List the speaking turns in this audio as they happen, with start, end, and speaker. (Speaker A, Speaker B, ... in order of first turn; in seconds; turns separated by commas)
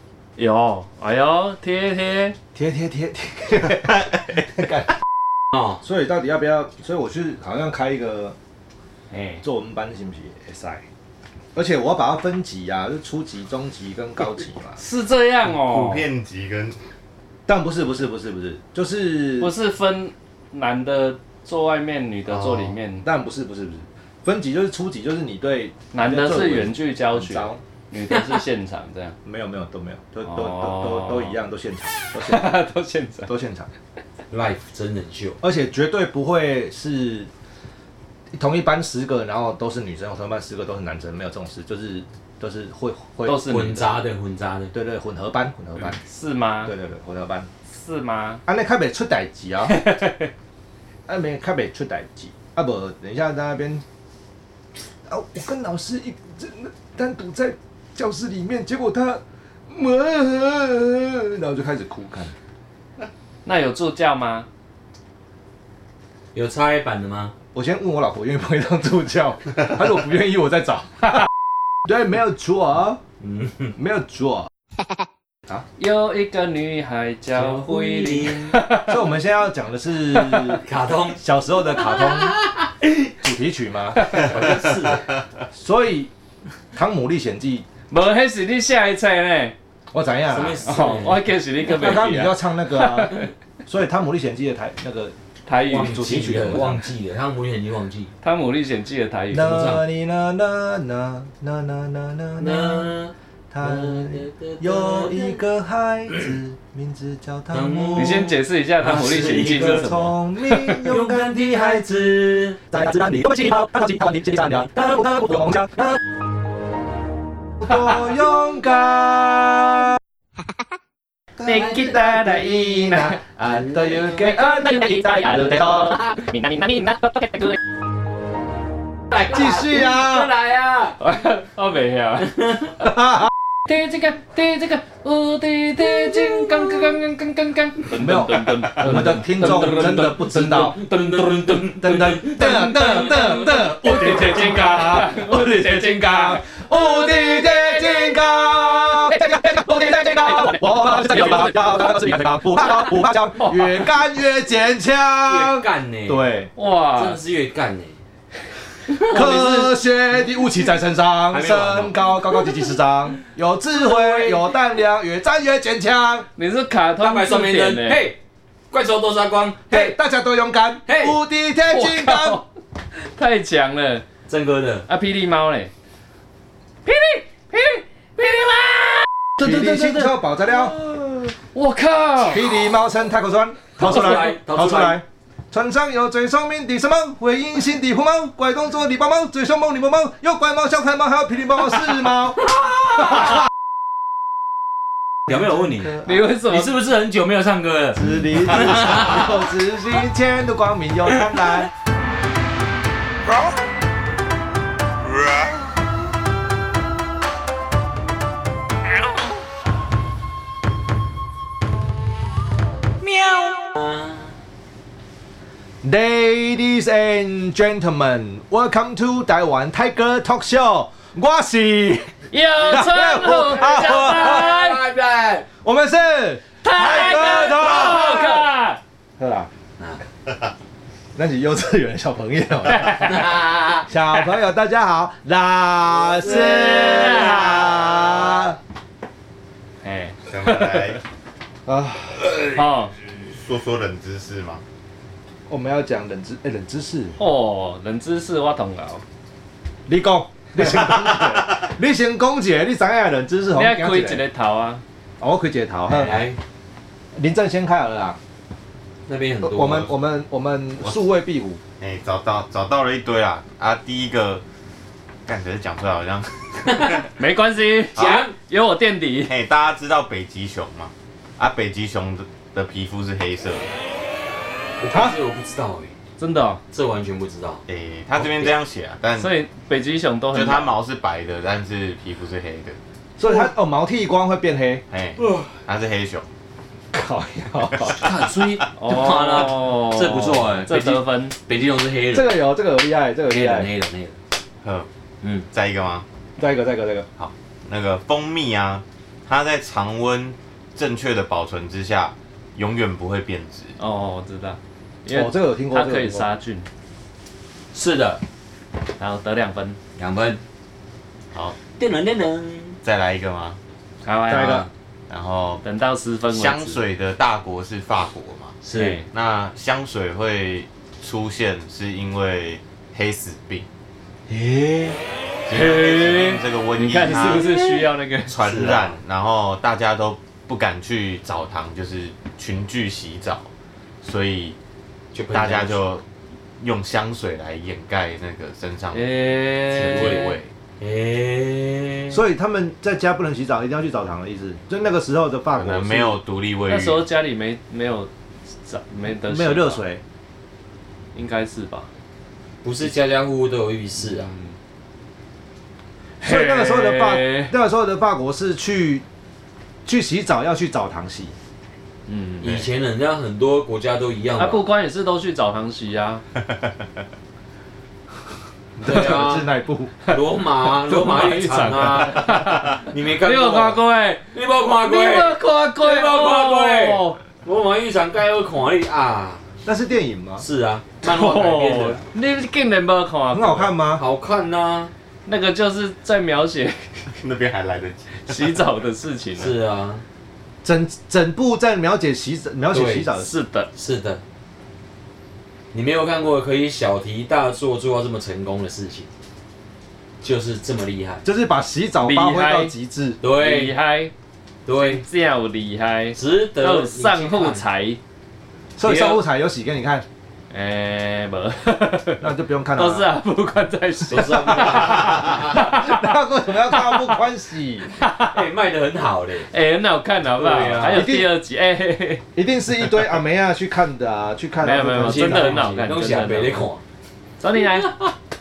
Speaker A: 0.4-2.4, Speaker B: 2.5-4.9, Speaker B: 5.8-8.3, Speaker A: 9.1-9.4, Speaker B: 9.4-10.8, Speaker B: 11.5-14.8, Speaker A: 14.8-16.1, Speaker C: 15.4-16.8, Speaker B: 17.5-19.5, Speaker A: 19.4-23.1, Speaker B: 22.3-27.6, Speaker A: 25.9-29.1, Speaker B: 29.2-32.5, Speaker A: 30.2-31.3, Speaker A: 32.1-33.3, Speaker B: 33.3-33.7, Speaker D: 34.3-35.4, Speaker B: 35.4-37.3, Speaker B: 38.4-43.5, Speaker A: 43.2-43.9, Speaker D: 43.4-44.7, Speaker B: 44.7-46.0, Speaker A: 46.0-46.7, Speaker B: 46.6-47.5, Speaker A: 47.7-48.4, Speaker B: 48.5-49.8, Speaker A: 49.7-50.3, Speaker B: 51.1-53.8, Speaker B: 55.1-62.3, Speaker A: 63.4-64.5, Speaker D: 66.3-67.3, Speaker B: 67.5-71.2, Speaker B: 71.8-73.0, Speaker D: 73.2-73.7, Speaker B: 73.8-74.5, Speaker A: 75.8-79.0, Speaker D: 77.3-78.6, Speaker B: 78.9-80.6, Speaker A: 80.2-80.6, Speaker D: 80.6-81.2, Speaker B: 81.2-82.3, Speaker D: 81.7-82.7, Speaker B: 83.2-84.4, Speaker D: 84.0-85.1, Speaker B: 85.5-86.1, Speaker B: 86.7-87.7, Speaker A: 87.9-89.5, Speaker B: 89.9-90.6, Speaker D: 90.3-91.3, Speaker A: 90.6-93.3, Speaker B: 91.6-93.1, Speaker B: 93.6-95.1, Speaker A: 95.5-96.7, Speaker D: 95.7-98.1, Speaker B: 95.8-96.9, Speaker A: 98.2-99.6, Speaker B: 99.3-102.9, Speaker D: 99.3-99.8, Speaker D: 102.4-105.4, Speaker B: 103.5-108.2, Speaker D: 107.5-109.9, Speaker A: 108.0-110.8, Speaker B: 109.2-112.0, Speaker D: 110.8-112.6, Speaker B: 112.7-116.0, Speaker B: 117.6-120.0, Speaker B: 121.4-126.1, Speaker A: 121.4-123.2, Speaker D: 123.5-124.0, Speaker A: 124.2-127.6, Speaker D: 129.1-131.0, Speaker B: 129.1-130.3, Speaker A: 131.0-132.4, Speaker D: 132.4-132.7, Speaker B: 132.8-133.3, Speaker A: 133.7-140.3, Speaker B: 137.9-140.8, Speaker D: 138.8-143.9, Speaker B: 141.8-156.5, Speaker A: 143.4-148.2, Speaker A: 149.1-152.1, Speaker A: 152.6-153.9, Speaker D: 155.2-156.2, Speaker A: 156.6-157.2, Speaker D: 156.9-158.0, Speaker A: 158.9-159.7, Speaker B: 159.1-166.3, Speaker D: 161.3-162.2, Speaker D: 163.8-164.5, Speaker A: 166.4-168.0, Speaker D: 167.0-168.2, Speaker D: 168.7-169.9, Speaker B: 169.7-172.4, Speaker D: 170.9-171.2, Speaker A: 171.7-172.4, Speaker A: 173.0-174.1, Speaker D: 174.3-174.9, Speaker A: 174.9-175.7, Speaker A: 176.8-182.4, Speaker B: 179.4-180.8, Speaker B: 182.2-192.5, Speaker D: 183.8-185.0, Speaker D: 192.5-193.2, Speaker B: 195.3-196.2, Speaker D: 195.3-199.4, Speaker A: 196.0-196.8, Speaker B: 197.9-201.7, Speaker D: 213.7-214.3, Speaker B: 215.8-224.5, Speaker A: 222.3-224.8, Speaker D: 223.6-225.4, Speaker B: 225.6-228.4, Speaker A: 226.6-228.8, Speaker B: 229.2-229.5, Speaker B: 231.1-233.2, Speaker A: 232.7-233.4, Speaker D: 233.0-233.9, Speaker B: 233.8-238.6, Speaker D: 236.2-237.4, Speaker A: 236.3-237.6, Speaker A: 239.8-241.0, Speaker C: 240.3-241.0, Speaker B: 241.7-242.4, Speaker A: 242.5-242.9, Speaker C: 243.3-244.6, Speaker B: 245.5-247.2, Speaker A: 247.2-249.0, Speaker B: 249.8-254.2, Speaker A: 253.5-254.8, Speaker B: 255.2-256.2, Speaker D: 255.9-256.4, Speaker B: 257.2-258.2, Speaker D: 259.1-259.9, Speaker B: 259.4-261.6, Speaker C: 261.8-264.4, Speaker C: 265.2-267.1, Speaker D: 266.7-267.0, Speaker A: 267.0-269.3, Speaker D: 267.9-268.3, Speaker C: 268.0-268.2, Speaker C: 269.3-273.7, Speaker D: 274.8-275.9, Speaker B: 274.9-275.1, Speaker A: 276.2-276.6, Speaker D: 276.7-277.6, Speaker C: 277.7-279.3, Speaker D: 278.1-278.5, Speaker A: 279.1-280.7, Speaker C: 280.3-282.8, Speaker B: 283.2-285.4, Speaker C: 284.9-286.2, Speaker B: 286.9-288.1, Speaker C: 287.8-288.5, Speaker D: 287.9-292.4, Speaker A: 288.7-291.4, Speaker B: 292.1-293.7, Speaker D: 293.3-294.1, Speaker C: 294.6-294.9, Speaker D: 295.2-295.5, Speaker C: 295.5-296.0, Speaker B: 296.4-297.1, Speaker C: 297.2-303.8, Speaker A: 303.8-306.6, Speaker B: 305.1-306.3, Speaker D: 307.7-308.2, Speaker A: 309.0-309.8, Speaker D: 310.0-310.4, Speaker C: 311.3-311.6, Speaker D: 311.7-312.8, Speaker C: 312.8-313.6, Speaker A: 314.0-314.7, Speaker B: 314.3-314.7, Speaker C: 315.1-315.6, Speaker A: 315.6-316.8, Speaker C: 316.3-318.6, Speaker D: 318.6-319.0, Speaker A: 318.7-319.1, Speaker C: 319.1-323.7, Speaker B: 324.3-325.0, Speaker C: 325.4-327.6, Speaker A: 325.5-328.4, Speaker D: 327.0-328.9, Speaker C: 328.3-333.5, Speaker C: 334.0-334.6, Speaker D: 335.1-335.8, Speaker C: 335.3-336.0, Speaker C: 336.6-339.1, Speaker A: 338.9-340.3, Speaker D: 339.7-342.2, Speaker C: 339.8-340.5, Speaker B: 342.1-346.2, Speaker C: 345.6-347.0, Speaker A: 346.7-348.1, Speaker A: 348.6-349.8, Speaker B: 349.2-350.0, Speaker A: 351.1-351.9, Speaker D: 352.6-354.3, Speaker A: 354.1-354.5, Speaker A: 356.2-357.5, Speaker B: 356.2-359.0, Speaker B: 359.8-361.3, Speaker A: 362.1-362.4, Speaker D: 362.4-364.6, Speaker C: 362.4-362.7, Speaker A: 364.4-366.2, Speaker C: 366.5-366.8, Speaker B: 368.8-369.9, Speaker D: 368.8-369.5, Speaker D: 370.1-373.8, Speaker A: 370.7-374.2, Speaker D: 374.3-379.4, Speaker A: 374.8-377.2, Speaker B: 379.6-380.4, Speaker D: 380.4-382.0, Speaker A: 381.0-383.8, Speaker B: 383.3-384.0, Speaker D: 383.9-384.9, Speaker A: 385.2-387.2, Speaker C: 387.1-388.6, Speaker A: 388.1-389.6, Speaker D: 389.4-390.0, Speaker B: 390.6-393.3, Speaker D: 392.7-393.1, Speaker A: 393.2-393.7, Speaker D: 393.7-394.2, Speaker D: 395.7-399.1, Speaker D: 400.2-401.2, Speaker B: 401.2-403.2, Speaker A: 402.0-402.7, Speaker D: 403.2-403.8, Speaker A: 403.3-404.1, Speaker D: 404.6-405.0, Speaker A: 404.7-408.0, Speaker D: 406.1-407.6, Speaker B: 408.8-410.1, Speaker D: 408.8-409.2, Speaker A: 410.5-416.1, Speaker B: 412.2-413.1, Speaker D: 414.1-415.7, Speaker B: 415.5-417.9, Speaker A: 416.7-417.2, Speaker A: 417.8-418.4, Speaker D: 418.2-419.5, Speaker A: 419.5-422.2, Speaker D: 420.3-421.1, Speaker B: 420.9-421.3, Speaker B: 422.3-425.7, Speaker A: 424.6-426.7, Speaker D: 425.0-426.8, Speaker A: 427.4-427.9, Speaker D: 427.8-428.1